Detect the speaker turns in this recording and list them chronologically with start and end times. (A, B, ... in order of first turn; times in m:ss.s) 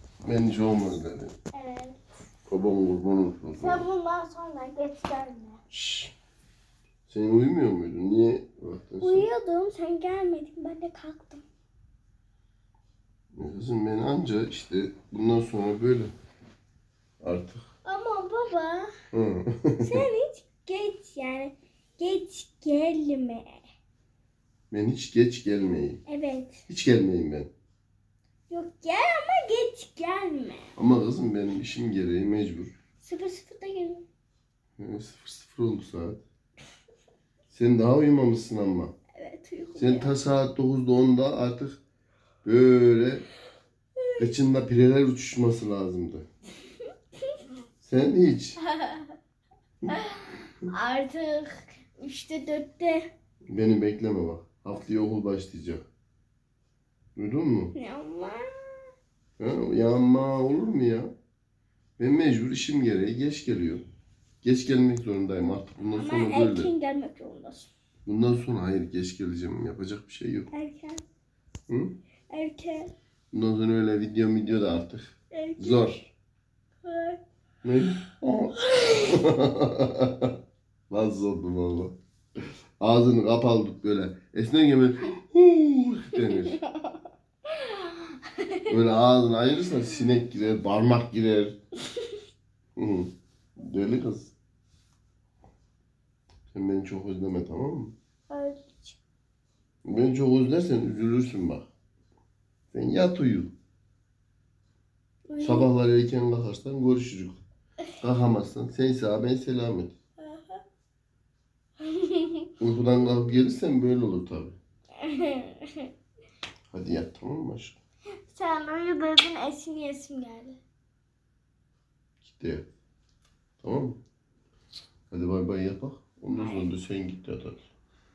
0:00.2-0:01.3 A
0:01.5-0:02.0 B
0:02.5-0:03.9 A
0:03.6-0:05.6 B
0:05.7-0:06.1 A
0:07.1-0:09.3 A
0:09.0-0:11.4 B
0:13.3-0:16.1 A
0:17.2-0:17.6 A
0:17.8-0:18.9 B
0:19.1-0:19.9 A
0:19.8-0:23.6 B
0:24.7-0:26.0 A
0:26.1-0:26.6 B
0:26.7-0:27.5 A
0:28.5-0:30.7 B
0:30.8-0:32.7 A
0:33.0-0:34.0 B
0:34.8-0:36.2 A
0:37.5-0:38.9 A
0:39.2-0:40.2 B
0:39.8-0:41.8 A
0:42.4-0:43.2 A
0:44.2-0:46.3 A
0:47.8-0:48.6 A
0:48.8-0:49.1 B
0:50.7-0:53.1 B
0:53.5-0:55.9 A
0:57.2-0:57.7 A
0:57.7-0:58.9 B
0:59.4-1:01.1 A
1:02.0-1:03.8 A
1:04.4-1:06.7 A
1:06.0-1:07.7 B
1:08.1-1:10.5 A
1:10.5-1:11.0 B
1:12.3-1:12.9 B
1:13.3-1:15.1 A
1:15.3-1:16.0 B
1:15.6-1:16.0 A
1:16.8-1:17.2 B
1:17.6-1:20.3 A
1:20.9-1:21.9 A
1:22.8-1:26.6 A
1:26.3-1:26.6 B
1:28.7-1:31.6 A
1:32.8-1:34.3 A
1:36.5-1:37.9 A
1:38.3-1:39.0 B
1:39.8-1:41.7 A
1:42.7-1:43.5 A
1:45.3-1:45.7 B
1:45.4-1:47.4 A
1:48.0-1:49.9 A
1:50.2-1:50.6 B
1:51.9-1:52.5 B
1:52.6-1:54.6 A
1:55.0-1:55.9 B
1:56.7-1:57.8 A
1:58.3-2:00.6 B
2:02.2-2:02.7 A
2:03.6-2:04.0 A
2:05.1-2:07.7 A
2:06.4-2:06.7 B